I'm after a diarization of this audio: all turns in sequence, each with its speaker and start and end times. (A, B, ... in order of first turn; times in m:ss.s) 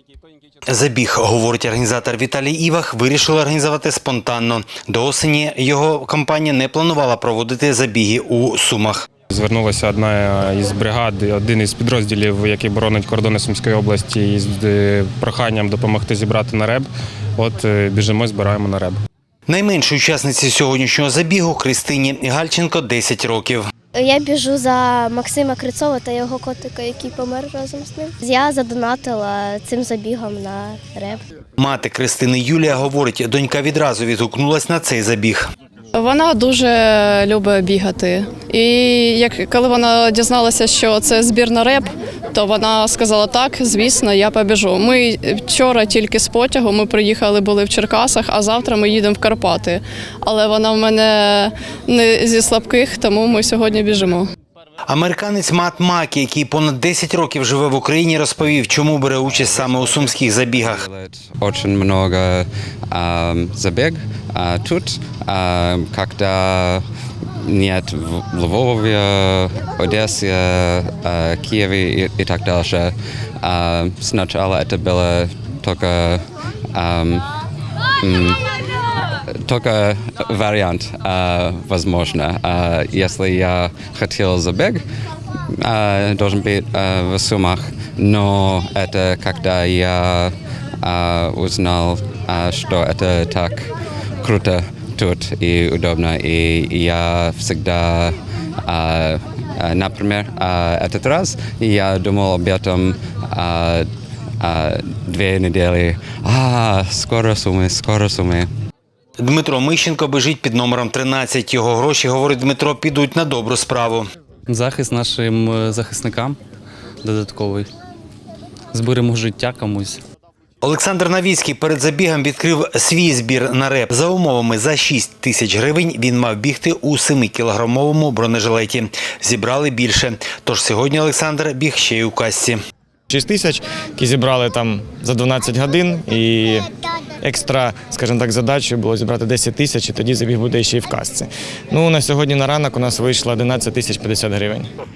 0:00.7-0:09.0 A
0:09.3-0:19.0 B
0:19.5-0:23.6 A
0:23.9-0:31.2 C
0:31.6-0:35.5 A
0:35.9-0:54.3 D
0:54.9-1:00.8 A
0:59.2-1:06.8 E
1:07.4-1:17.3 E
1:18.0-1:18.4 E
1:19.3-1:24.8 E
1:25.6-1:33.7 E
1:34.2-1:43.8 E
1:44.4-1:48.5 E
1:49.2-1:54.1 A
1:54.5-1:56.4 F
1:57.0-1:57.7 F
1:58.7-2:00.0 F
2:00.6-2:12.6 A
2:13.1-2:16.7 G
2:17.2-2:24.7 G